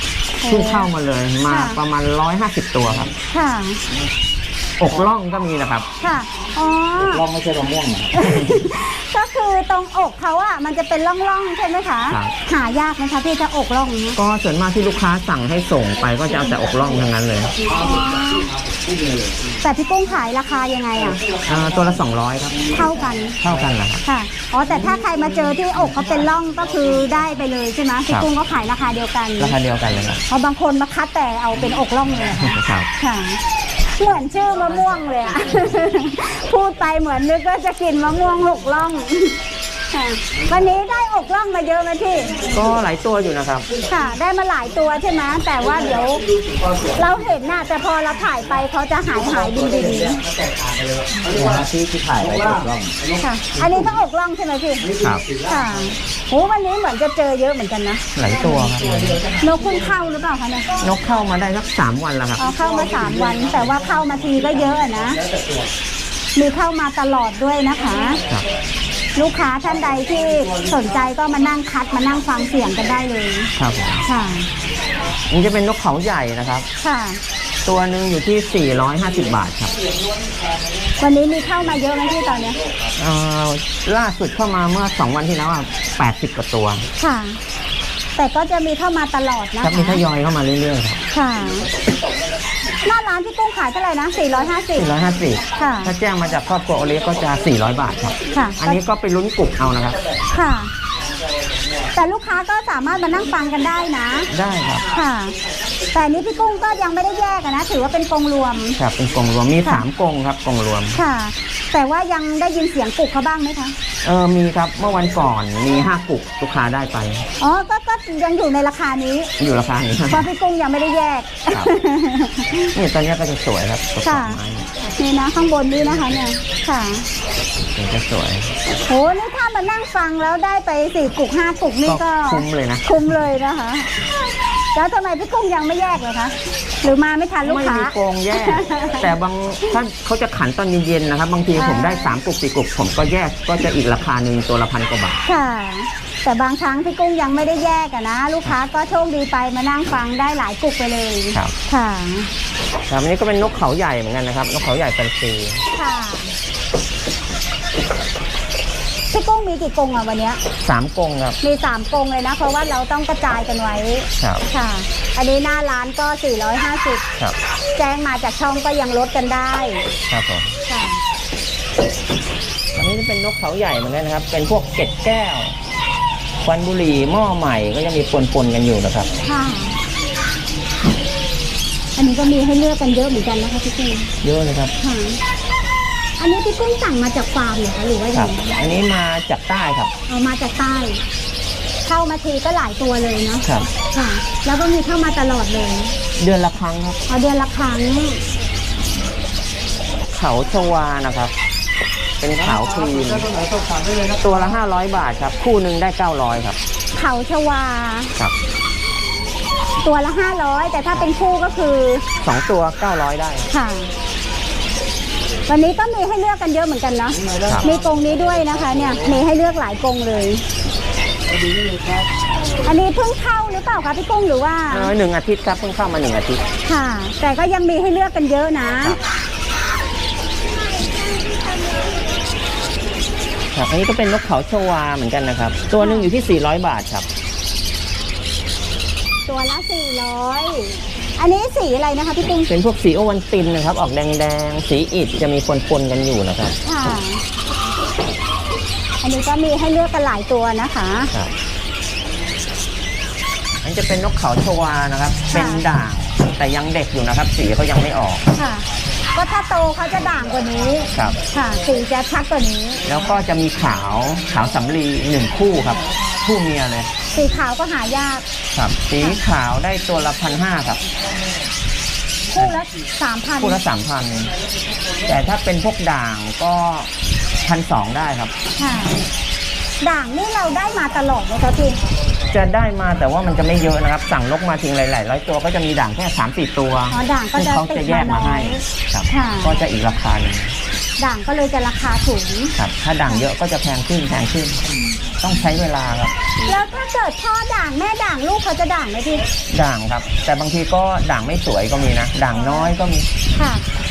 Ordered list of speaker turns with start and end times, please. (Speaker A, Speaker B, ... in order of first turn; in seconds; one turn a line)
Speaker A: 0.4-0.9
Speaker B: 0.4-3.1
Speaker A: 1.5-1.8
Speaker A: 3.3-3.8
Speaker B: 4.8-5.8
Speaker A: 6.0-7.2
Speaker C: 7.0-8.6
Speaker A: 8.1-14.2
Speaker B: 12.1-12.3
Speaker B: 14.2-17.5
Speaker A: 17.7-18.5
Speaker C: 18.7-19.5
Speaker A: 19.6-21.2
Speaker B: 21.4-24.0
Speaker A: 22.7-23.4
Speaker A: 24.0-29.5
Speaker B: 29.4-30.2
Speaker A: 30.3-33.4
Speaker B: 32.3-32.9
Speaker A: 34.0-39.4
Speaker A: 39.9-42.4
Speaker B: 42.5-43.7
Speaker A: 43.9-46.3
Speaker A: 46.9-50.2
Speaker C: 51.2-53.0
Speaker B: 51.3-51.6
Speaker A: 53.1-58.0
Speaker B: 55.0-55.3
Speaker B: 58.1-59.2
Speaker A: 59.4-60.8
Speaker B: 60.8-62.5
Speaker A: 62.4-65.2
Speaker A: 66.3-68.2
Speaker A: 69.2-73.5
Speaker B: 73.5-74.0
Speaker A: 74.0-74.5
Speaker B: 75.3-76.7
Speaker A: 76.8-77.2
Speaker B: 77.6-79.7
Speaker A: 81.0-82.6
Speaker B: 83.0-86.9
Speaker A: 87.0-87.4
Speaker A: 88.2-90.0
Speaker B: 89.6-91.0
Speaker A: 91.1-91.7
Speaker A: 92.8-95.0
Speaker B: 94.7-100.0
Speaker A: 95.5-95.9
Speaker A: 98.3-98.8
Speaker A: 100.3-100.7
Speaker A: 101.9-104.3
Speaker B: 104.3-104.8
Speaker A: 104.9-105.3
Speaker A: 105.9-108.8
Speaker B: 108.8-111.0
Speaker A: 110.9-113.7
Speaker B: 114.0-117.3
Speaker A: 117.4-119.3
Speaker B: 119.4-120.3
Speaker A: 120.1-122.7
Speaker B: 122.7-124.7
Speaker A: 124.0-127.1
Speaker B: 127.7-128.5
Speaker A: 128.9-139.1
Speaker B: 131.8-133.1
Speaker B: 137.4-145.2
Speaker A: 141.5-142.1
Speaker A: 145.2-152.3
Speaker B: 152.9-155.6
Speaker A: 155.7-156.3
Speaker A: 159.1-160.4
Speaker B: 160.6-161.4
Speaker A: 161.4-167.0
Speaker B: 164.2-164.4
Speaker A: 167.8-169.8
Speaker B: 170.1-170.6
Speaker A: 170.7-171.0
Speaker B: 172.7-175.6
Speaker B: 176.4-179.1
Speaker A: 179.2-179.8
Speaker A: 182.0-184.1
Speaker B: 184.2-184.7
Speaker A: 184.8-185.2
Speaker A: 186.2-188.7
Speaker B: 188.1-189.9
Speaker A: 190.1-191.0
Speaker A: 191.8-195.9
Speaker B: 196.2-197.0
Speaker A: 197.1-198.2
Speaker B: 200.1-201.3
Speaker B: 202.2-203.3
Speaker B: 204.0-206.6
Speaker A: 206.9-208.1
Speaker A: 209.8-212.1
Speaker B: 212.2-213.5
Speaker A: 213.5-213.9
Speaker A: 215.5-220.4
Speaker A: 222.6-224.9
Speaker B: 224.7-226.4
Speaker A: 226.6-229.0
Speaker B: 233.5-237.1
Speaker A: 235.8-236.1
Speaker A: 239.3-242.5
Speaker B: 242.2-246.6
Speaker A: 246.6-247.2
Speaker A: 249.0-251.1
Speaker B: 253.6-258.2
Speaker A: 255.3-255.6
Speaker A: 258.4-258.6
Speaker A: 259.1-262.8
Speaker B: 262.8-266.9
Speaker A: 267.1-268.2
Speaker B: 268.5-270.8
Speaker A: 272.3-273.6
Speaker B: 273.4-274.3
Speaker B: 275.0-276.9
Speaker B: 277.4-278.3
Speaker A: 278.6-279.0
Speaker A: 279.8-281.8
Speaker B: 282.3-290.6
Speaker A: 286.9-289.6
Speaker A: 291.0-292.5
Speaker B: 292.6-294.6
Speaker B: 295.2-296.1
Speaker A: 296.4-299.2
Speaker B: 299.5-303.1
Speaker A: 302.3-302.7
Speaker A: 303.3-303.6